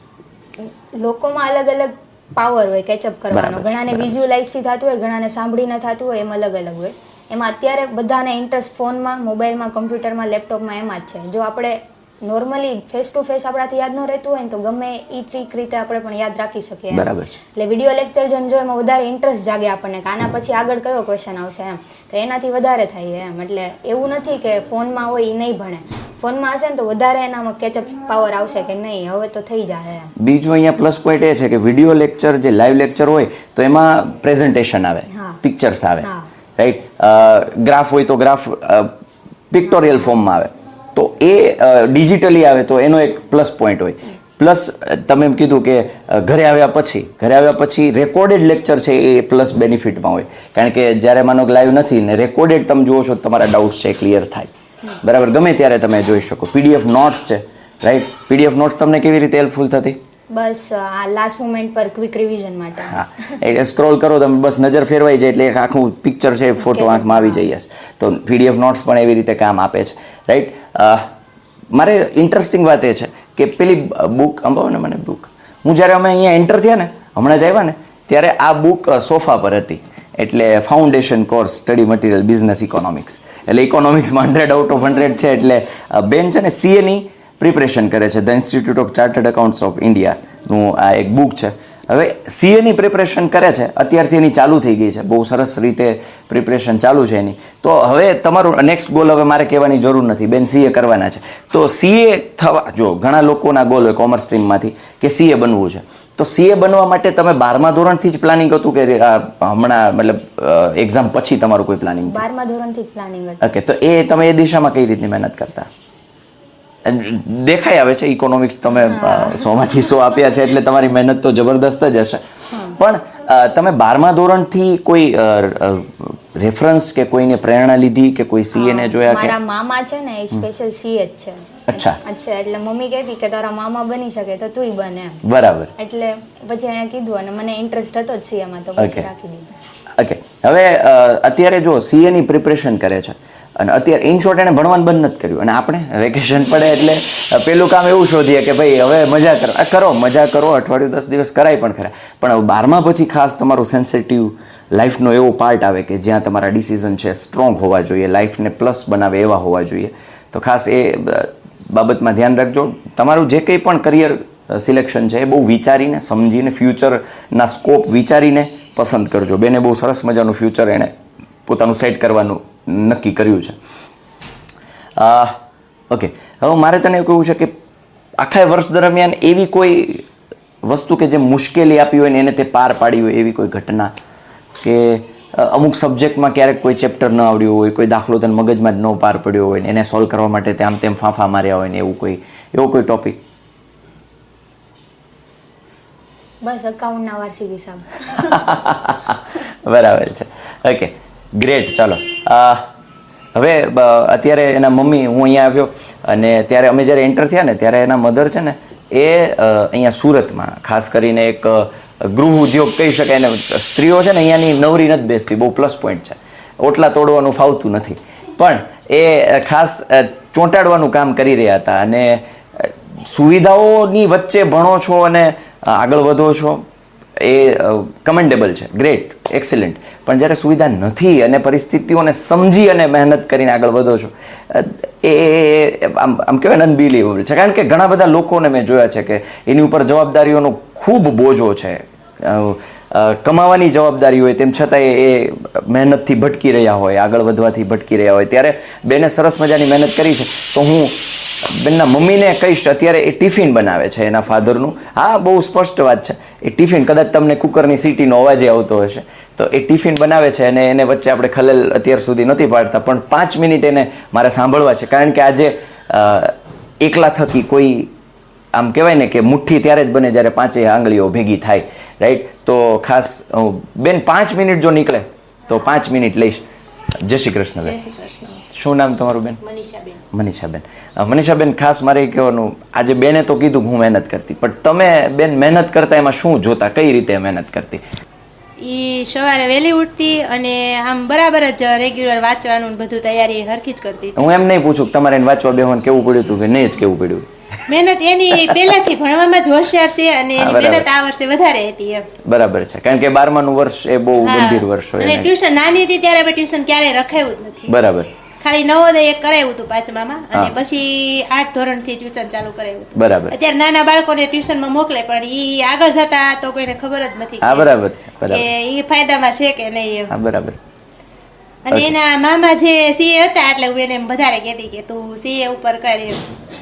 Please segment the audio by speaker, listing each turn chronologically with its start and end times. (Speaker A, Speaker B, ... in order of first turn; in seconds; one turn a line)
Speaker A: 0.6-30.1
Speaker B: 3.3-4.2
Speaker B: 16.9-17.4
Speaker B: 30.2-38.9
Speaker A: 35.1-35.4
Speaker A: 36.0-36.3
Speaker B: 39.5-60.0
Speaker A: 39.7-40.0
Speaker A: 60.3-63.4
Speaker B: 62.9-71.1
Speaker A: 66.6-67.5
Speaker B: 71.7-112.2
Speaker A: 112.1-113.4
Speaker B: 113.4-115.7
Speaker B: 116.8-122.2
Speaker A: 118.7-119.5
Speaker A: 122.5-122.8
Speaker B: 122.7-129.3
Speaker A: 128.5-135.2
Speaker B: 131.7-132.0
Speaker B: 135.2-135.7
Speaker A: 135.8-139.5
Speaker B: 138.8-139.1
Speaker B: 140.0-170.9
Speaker B: 171.5-173.6
Speaker B: 175.0-175.4
Speaker B: 175.9-177.5
Speaker B: 178.2-180.1
Speaker B: 180.6-183.9
Speaker B: 184.6-193.2
Speaker A: 196.4-198.6
Speaker B: 198.2-202.7
Speaker B: 203.3-226.7
Speaker B: 227.2-267.9
Speaker B: 268.5-276.4
Speaker B: 277.0-277.8
Speaker C: 277.6-278.4
Speaker B: 278.4-279.4
Speaker C: 279.4-280.0
Speaker B: 280.1-287.8
Speaker C: 288.6-294.2
Speaker B: 294.1-297.3
Speaker C: 297.7-302.1
Speaker B: 298.3-298.7
Speaker B: 300.4-300.9
Speaker B: 302.2-305.3
Speaker C: 304.2-307.8
Speaker B: 307.7-308.1
Speaker C: 308.4-317.7
Speaker B: 312.9-313.4
Speaker B: 317.4-318.5
Speaker C: 318.2-320.1
Speaker B: 320.1-320.6
Speaker C: 321.6-326.3
Speaker B: 321.7-321.9